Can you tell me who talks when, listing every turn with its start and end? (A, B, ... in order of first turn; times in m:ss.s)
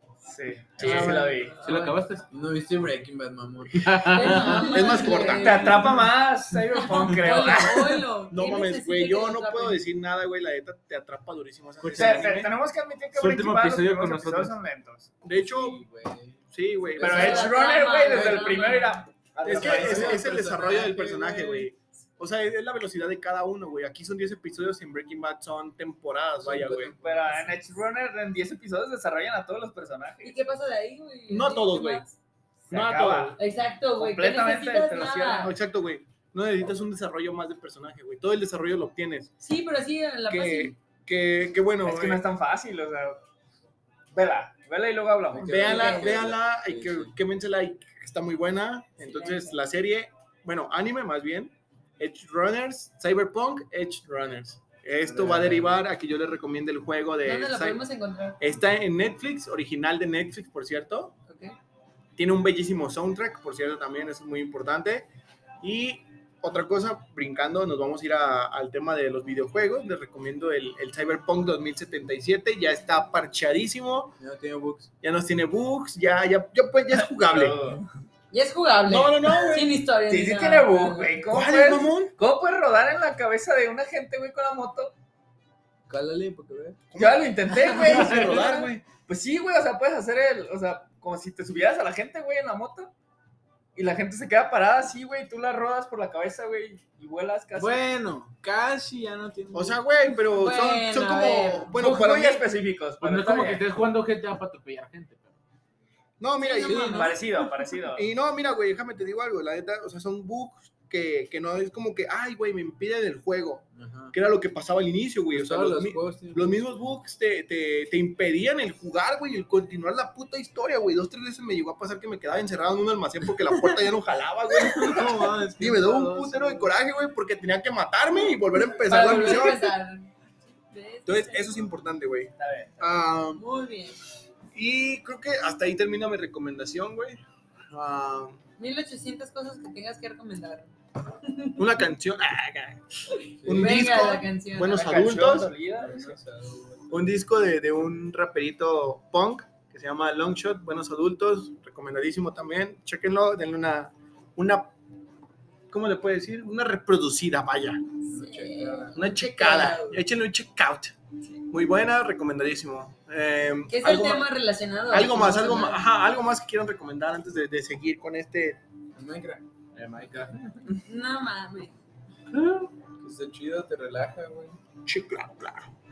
0:00.2-0:01.6 A
0:00.8-0:01.3 B
0:00.8-0:02.0 C
0:01.6-0:02.3 D
0:01.7-0:05.8 E
0:03.8-0:04.8 D
0:04.1-0:06.0 C
0:04.6-0:05.8 B
0:05.2-0:08.0 A
0:06.7-0:09.8 C
0:07.5-0:07.8 B
0:08.3-0:12.5 B
0:11.8-0:12.3 D
0:11.9-0:15.1 A
0:13.2-0:14.6 D
0:15.2-0:15.8 B
0:15.3-0:16.4 E
0:16.5-0:17.5 B
0:17.0-0:18.7 E
0:17.0-0:20.2 A
0:17.0-0:19.1 C
0:19.4-0:21.6 E
0:19.4-0:27.0 B
0:19.8-0:20.8 C
0:26.4-0:27.6 E
0:27.0-0:30.4 A
0:30.2-0:32.2 C
0:31.3-0:32.0 B
0:32.7-0:33.4 A
0:32.7-0:33.4 B
0:33.4-0:35.5 C
0:34.0-0:35.6 A
0:35.4-0:39.3 B
0:39.4-0:40.7 C
0:40.3-0:42.2 B
0:41.8-0:43.2 A
0:44.1-0:45.8 A
0:45.3-0:47.1 E
0:45.4-0:57.8 B
0:45.6-0:46.2 C
0:49.0-0:49.6 C
0:55.0-0:55.8 E
0:57.2-0:58.4 C
0:58.4-1:01.2 B
1:01.3-1:01.5 C
1:02.2-1:05.1 B
1:05.6-1:14.2 B
1:14.2-1:14.9 E
1:15.0-1:17.6 B
1:16.9-1:17.9 A
1:18.3-1:21.2 C
1:18.9-1:19.7 B
1:20.1-1:24.9 A
1:21.3-1:22.1 B
1:25.9-1:26.8 E
1:26.9-1:28.8 B
1:27.0-1:32.9 A
1:27.7-1:28.4 E
1:28.1-1:28.5 C
1:33.8-1:37.8 A
1:37.6-1:39.8 E
1:39.5-1:42.4 B
1:40.3-1:41.7 C
1:41.8-1:43.6 A
1:43.0-1:45.4 D
1:46.2-1:47.2 B
1:46.4-1:47.2 C
1:46.7-1:47.7 E
1:46.8-1:48.1 A
1:47.9-2:09.7 B
1:53.8-1:54.2 E
1:55.3-1:56.6 E
2:03.4-2:03.8 E
2:04.6-2:06.7 E
2:08.8-2:11.6 C
2:11.1-2:13.4 B
2:12.4-2:12.9 A
2:13.4-2:14.0 C
2:14.5-2:17.2 B
2:17.7-2:18.4 B
2:18.6-2:20.7 C
2:21.2-2:21.6 C
2:21.6-2:22.8 B
2:23.4-2:23.9 E
2:23.4-2:25.6 B
2:23.5-2:25.1 C
2:24.7-2:26.2 A
2:25.7-2:27.0 E
2:26.9-2:34.7 B
2:35.7-2:37.9 B
2:38.1-2:40.0 C
2:38.1-2:39.0 E
2:39.0-2:41.0 B
2:41.5-2:44.3 B
2:43.7-2:45.8 C
2:44.9-2:48.6 B
2:49.0-2:50.8 E
2:50.8-2:51.8 C
2:52.3-2:54.6 E
2:54.8-2:55.7 B